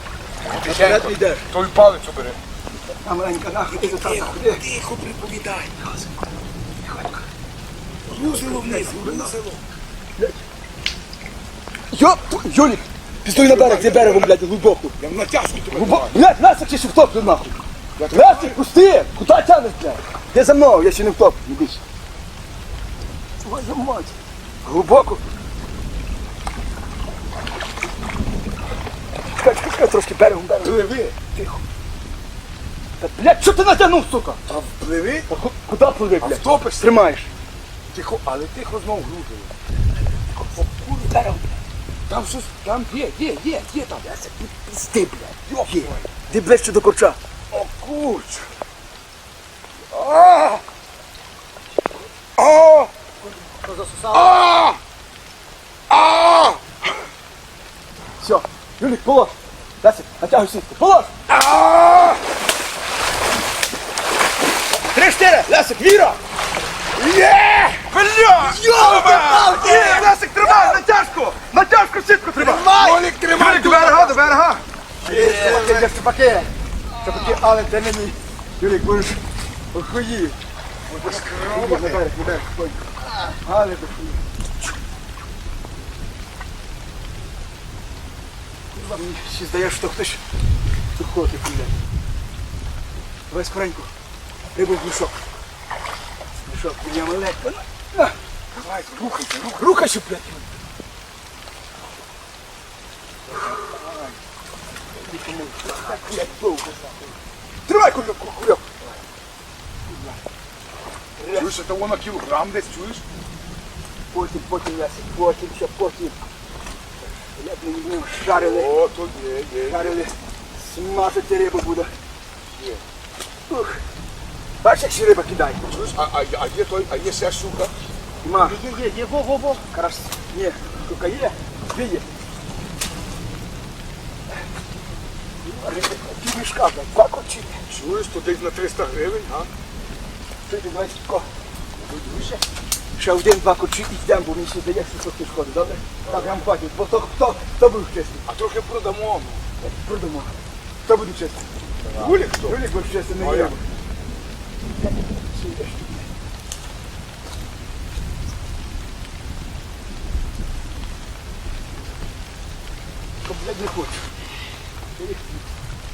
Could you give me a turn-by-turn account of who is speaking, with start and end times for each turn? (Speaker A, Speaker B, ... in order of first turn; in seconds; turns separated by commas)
Speaker A: 0.4-2.4, Speaker B: 0.6-1.5, Speaker B: 3.0-4.6, Speaker A: 3.8-6.1, Speaker B: 6.8-7.2, Speaker A: 8.1-9.6, Speaker B: 8.1-9.3, Speaker B: 10.2-10.4, Speaker B: 11.9-14.9, Speaker A: 13.4-14.3, Speaker A: 15.0-16.2, Speaker B: 15.7-17.5, Speaker A: 18.0-18.6, Speaker B: 18.1-21.8, Speaker B: 23.4-25.2, Speaker B: 29.3-31.6, Speaker A: 30.6-31.3, Speaker B: 33.0-34.4, Speaker A: 34.5-35.3, Speaker B: 35.3-37.3, Speaker A: 36.2-37.1, Speaker A: 37.9-39.5, Speaker B: 40.6-41.6, Speaker A: 42.1-44.0, Speaker B: 44.0-47.2, Speaker A: 45.5-46.0, Speaker A: 47.5-48.5, Speaker A: 49.9-50.6, Speaker A: 52.4-52.9, Speaker C: 53.6-54.3, Speaker A: 54.1-54.8, Speaker A: 55.9-56.6, Speaker B: 58.2-61.2, Speaker A: 61.3-62.2, Speaker B: 64.9-66.2, Speaker A: 67.0-70.8, Speaker B: 68.4-72.7, Speaker A: 72.4-74.3, Speaker C: 72.5-73.1, Speaker B: 73.3-76.5, Speaker C: 75.0-76.0, Speaker B: 77.0-79.2, Speaker B: 79.7-80.3, Speaker A: 80.9-82.0, Speaker B: 80.9-82.8, Speaker B: 83.4-84.2, Speaker B: 88.7-90.2, Speaker B: 91.0-91.8, Speaker B: 93.3-93.9, Speaker B: 94.5-95.1, Speaker B: 96.5-100.5, Speaker B: 103.4-104.1, Speaker B: 105.0-106.9, Speaker B: 107.7-108.7, Speaker B: 109.9-110.2, Speaker B: 111.2-111.5, Speaker A: 111.3-113.0, Speaker B: 114.1-116.2, Speaker B: 117.4-118.8, Speaker A: 118.3-120.0, Speaker B: 119.7-121.9, Speaker A: 122.6-122.8, Speaker B: 123.5-123.8, Speaker B: 124.6-125.6, Speaker A: 125.7-127.7, Speaker B: 128.2-128.6, Speaker C: 128.4-129.6, Speaker B: 129.7-132.0, Speaker B: 135.4-137.6, Speaker A: 137.7-139.5, Speaker B: 140.4-141.3, Speaker A: 141.8-142.4, Speaker B: 143.0-148.2, Speaker A: 146.0-146.3, Speaker A: 148.3-149.4, Speaker B: 149.6-151.4, Speaker A: 151.8-152.6, Speaker B: 152.0-153.6, Speaker A: 153.2-153.5, Speaker B: 154.8-156.0, Speaker B: 163.2-164.1, Speaker B: 164.9-165.4